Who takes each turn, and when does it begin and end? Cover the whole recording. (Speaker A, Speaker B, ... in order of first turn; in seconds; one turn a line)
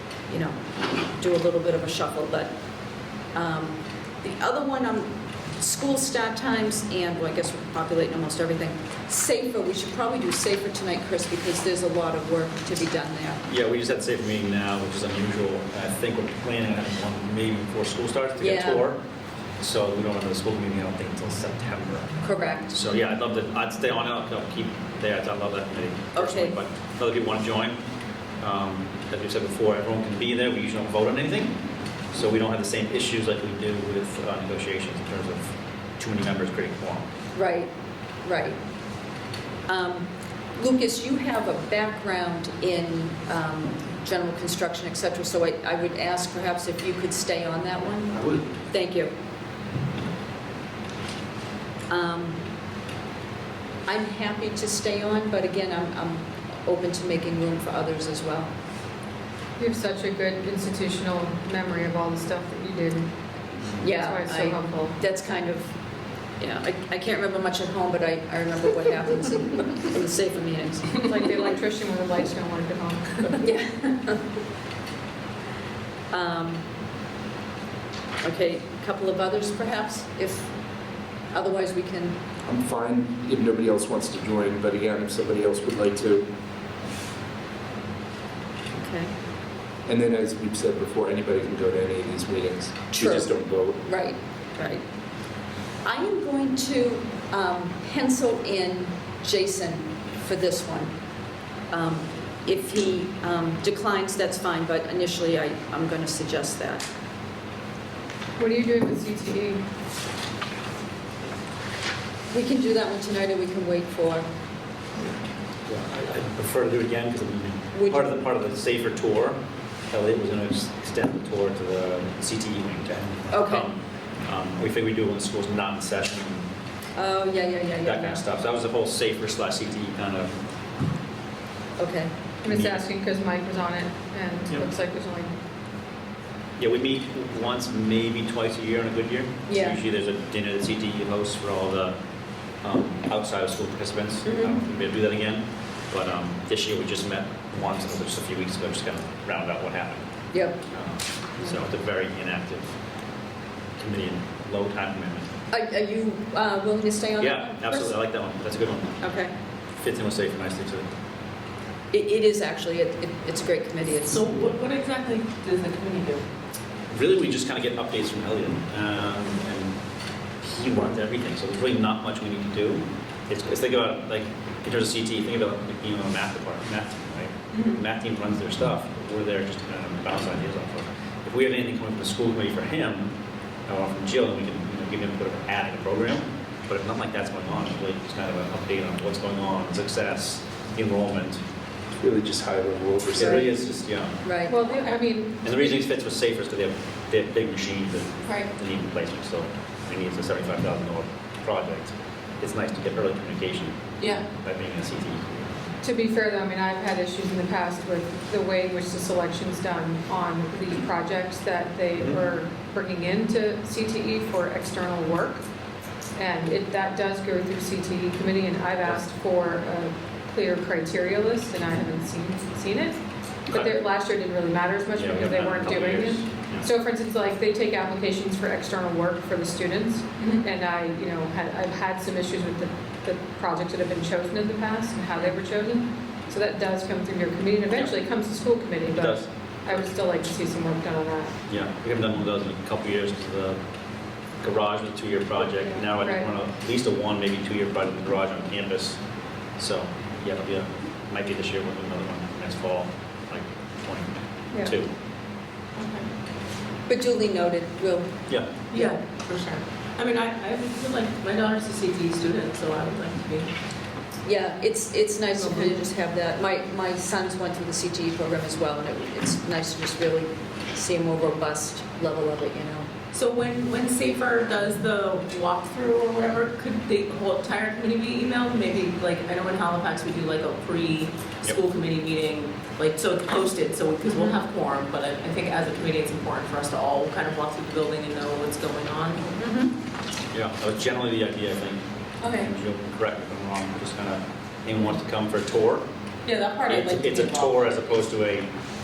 Speaker A: 0.3-0.6
Speaker A: 1.2-2.5
Speaker A: 3.3-5.1
Speaker A: 5.6-13.4
Speaker B: 13.5-19.0
Speaker A: 18.4-18.9
Speaker B: 19.6-22.1
Speaker A: 22.2-22.8
Speaker B: 22.7-27.8
Speaker A: 26.1-26.6
Speaker B: 28.4-31.5
Speaker B: 32.1-37.1
Speaker A: 37.4-37.7
Speaker A: 38.2-38.6
Speaker A: 39.7-48.2
Speaker C: 48.2-48.4
Speaker A: 48.7-49.1
Speaker A: 51.9-52.4
Speaker A: 53.9-58.5
Speaker D: 59.6-63.1
Speaker A: 63.8-65.7
Speaker D: 63.8-65.0
Speaker A: 66.4-71.1
Speaker D: 71.0-73.5
Speaker A: 73.4-74.2
Speaker A: 76.1-76.6
Speaker A: 78.2-80.5
Speaker A: 81.3-82.2
Speaker C: 82.4-86.3
Speaker A: 88.7-89.1
Speaker C: 89.9-93.8
Speaker A: 92.9-93.3
Speaker A: 93.8-94.8
Speaker A: 95.8-100.9
Speaker A: 101.7-106.9
Speaker D: 108.4-109.6
Speaker A: 112.3-114.3
Speaker B: 115.7-119.4
Speaker A: 117.7-118.1
Speaker B: 119.9-126.5
Speaker A: 123.3-123.7
Speaker A: 127.0-128.2
Speaker B: 127.8-130.3
Speaker A: 131.8-132.1
Speaker D: 132.4-135.3
Speaker B: 132.5-132.8
Speaker B: 136.6-142.0
Speaker A: 139.5-139.8
Speaker B: 142.6-150.0
Speaker A: 144.2-144.6
Speaker A: 150.3-150.6
Speaker B: 150.7-152.6
Speaker B: 153.8-155.3
Speaker A: 155.5-157.9
Speaker B: 157.2-159.0
Speaker A: 159.0-159.3
Speaker B: 159.8-160.9
Speaker A: 161.9-164.2
Speaker E: 164.1-166.3
Speaker B: 166.9-169.7
Speaker B: 170.4-183.1
Speaker E: 177.5-177.8
Speaker B: 183.7-191.4
Speaker C: 192.0-193.5
Speaker B: 193.2-194.2
Speaker A: 194.2-194.6
Speaker D: 194.5-195.4
Speaker B: 195.4-205.5
Speaker E: 204.0-204.3
Speaker D: 205.8-215.4
Speaker D: 216.2-223.0
Speaker D: 223.5-241.3
Speaker B: 224.9-226.7
Speaker E: 230.2-230.4
Speaker B: 238.9-239.3
Speaker B: 241.5-243.6
Speaker B: 244.4-249.0
Speaker D: 245.6-246.3
Speaker B: 249.6-254.1
Speaker B: 254.6-254.9
Speaker E: 255.8-256.1
Speaker A: 256.9-258.1
Speaker B: 258.3-258.5
Speaker E: 258.7-263.5
Speaker A: 264.3-272.9
Speaker E: 265.4-265.7
Speaker E: 273.1-289.4
Speaker A: 289.4-289.7
Speaker B: 290.3-295.8
Speaker E: 292.2-292.5
Speaker E: 296.2-297.9
Speaker B: 296.7-298.5